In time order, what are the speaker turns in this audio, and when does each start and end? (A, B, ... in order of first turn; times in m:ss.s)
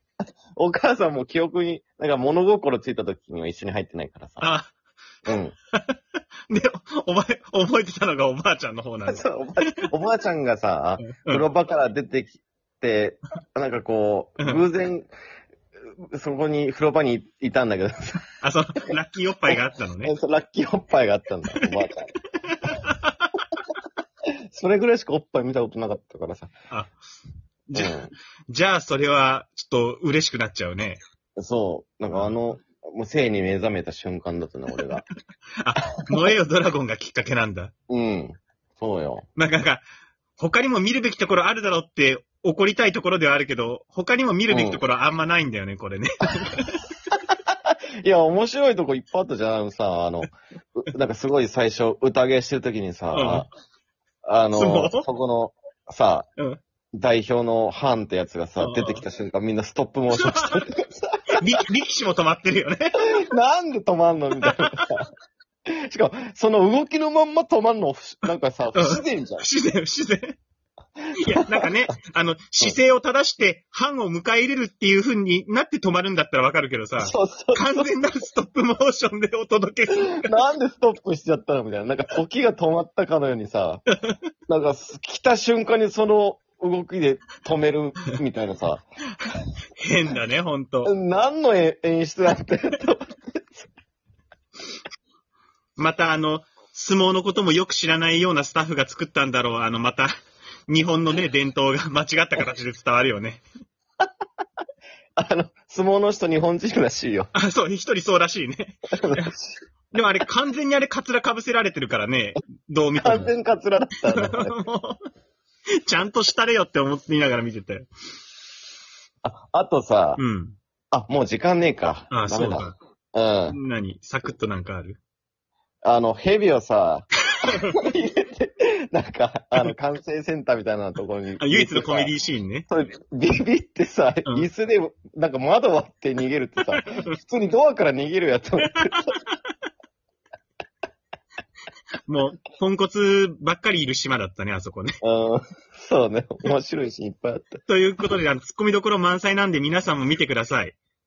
0:00.6-0:04.5 A
0:04.4-0:04.7 B
0:05.2-0:05.5 A
0:06.5-0:09.9 B
0:09.1-0:15.1 A
0:11.0-0:11.4 B
0:16.0-0:18.2 A
0:18.4-0:20.1 B
0:19.5-0:22.1 A
0:22.4-0:23.4 B
0:24.5-0:26.5 A
0:26.7-0:27.0 B
0:27.7-0:31.0 B
0:27.7-0:28.1 A
0:31.4-0:35.0 A
0:32.1-0:32.4 B
0:35.6-0:37.7 B
0:37.9-0:39.2 A
0:39.4-0:39.8 B
0:40.4-0:46.8 B
0:44.5-0:44.8 A
0:48.0-0:53.5 A
0:53.1-0:53.5 B
0:54.2-0:56.3 A
0:54.5-0:55.1 B
0:56.9-1:01.4 A
0:58.6-0:59.0 B
1:00.2-1:00.6 B
1:01.4-1:03.0 B
1:03.0-1:05.1 A
1:04.4-1:04.8 B
1:05.8-1:09.4 A
1:08.7-1:10.4 B
1:11.2-1:20.3 B
1:11.3-1:11.7 A
1:17.0-1:17.9 A
1:19.9-1:23.8 A
1:24.5-1:28.8 A
1:29.8-1:30.9 B
1:30.8-1:33.7 A
1:35.8-1:40.1 B
1:40.7-1:43.4 B
1:45.2-1:47.3 A
1:47.3-1:49.3 B
1:49.0-1:49.5 A
1:49.9-1:53.3 B
1:53.0-1:54.5 A
1:54.1-1:55.0 B
1:55.8-1:57.9 B
1:59.2-2:00.2 A
2:00.2-2:00.6 B
2:00.9-2:03.6 A
2:02.1-2:02.8 B
2:03.5-2:05.0 B
2:05.8-2:12.1 A
2:07.4-2:07.7 B
2:11.4-2:12.7 B
2:12.7-2:19.1 A
2:16.7-2:17.1 B
2:19.0-2:19.4 B
2:22.0-2:25.0 B
2:25.0-2:27.6 A
2:27.6-2:30.8 B